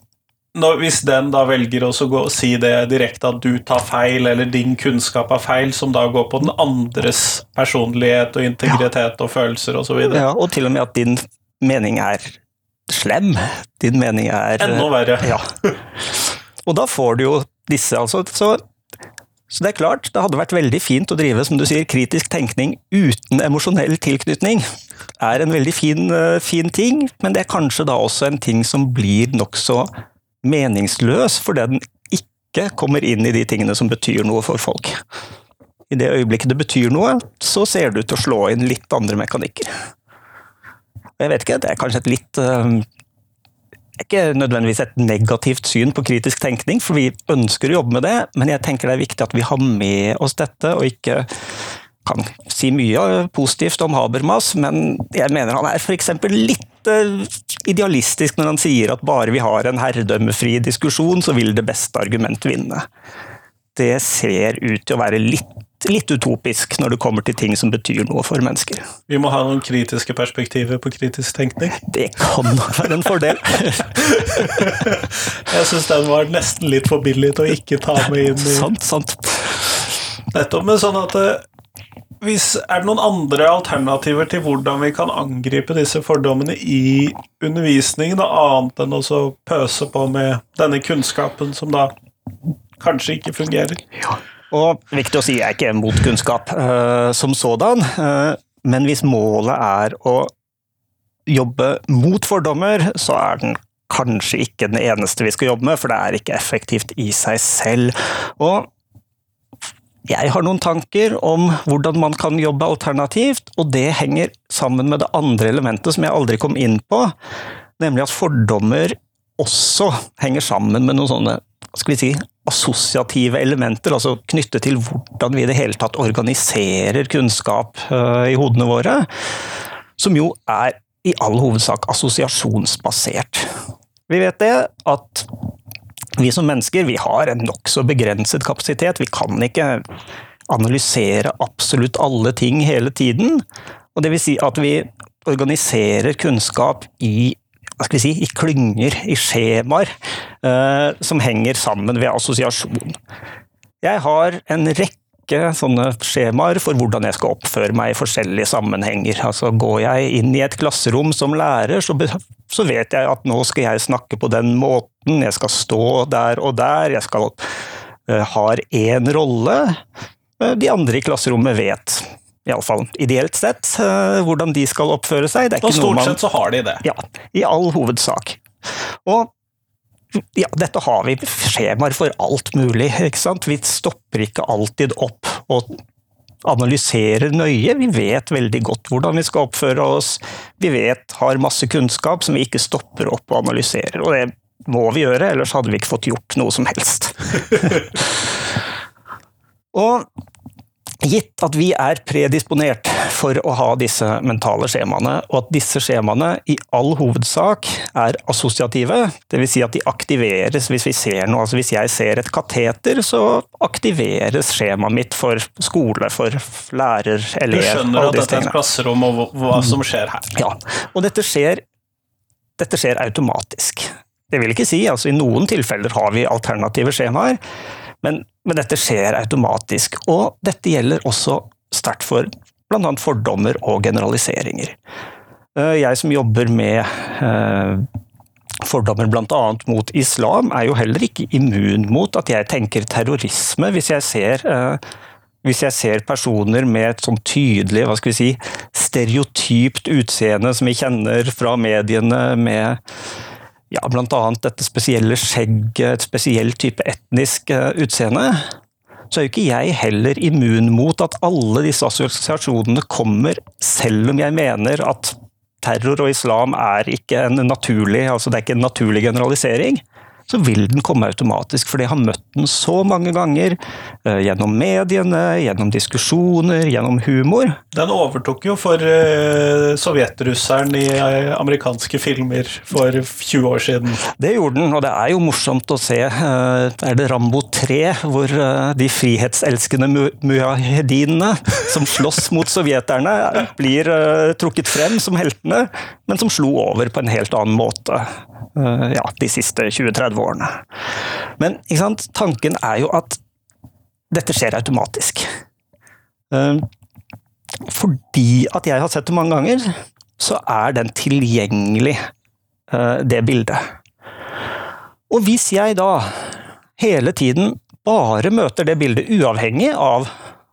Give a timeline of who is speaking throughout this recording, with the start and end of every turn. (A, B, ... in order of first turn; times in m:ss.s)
0:00.5-0:10.2 A
0:10.0-0:18.6 B
0:14.6-0:15.7 A
0:19.5-0:24.6 B
0:25.2-0:29.9 B
0:30.4-0:35.0 B
0:35.9-0:39.7 B
0:41.2-0:42.8 B
0:44.0-0:51.4 B
0:52.0-1:02.9 B
1:03.7-1:08.9 B
1:09.1-1:11.8 A
1:11.8-1:14.6 B
1:14.0-1:18.7 A
1:18.4-1:19.8 B
1:20.3-1:21.4 A
1:22.2-1:31.9 A
1:32.8-1:33.8 A
1:34.5-1:40.3 B
1:41.3-1:48.7 B
1:50.1-1:57.1 B
1:57.8-2:09.1 B
2:10.0-2:13.5 B
2:14.1-2:15.3 B
2:16.2-2:19.9 B
2:20.5-2:33.0 B
2:33.8-2:47.5 B
2:48.0-2:49.8 B
2:50.4-2:56.2 B
2:55.6-2:56.8 A
2:56.8-2:58.4 B
2:59.0-2:59.3 B
3:00.1-3:05.8 B
3:06.4-3:18.2 B
3:19.7-3:20.1 B
3:21.0-3:38.5 B
3:37.5-3:40.4 A
3:40.3-3:41.6 B
3:42.6-3:47.4 B
3:48.0-3:54.8 B
3:55.5-3:57.9 B
3:58.6-4:04.8 B
4:05.4-4:12.8 B
4:13.7-4:18.5 B
4:19.1-4:37.6 B
4:37.7-4:44.0 A
4:44.0-5:00.6 B
5:01.4-5:03.2 B
5:04.1-5:05.2 B
5:06.3-5:06.7 B
5:07.6-5:12.0 B
5:12.7-5:13.7 B
5:15.1-5:20.1 B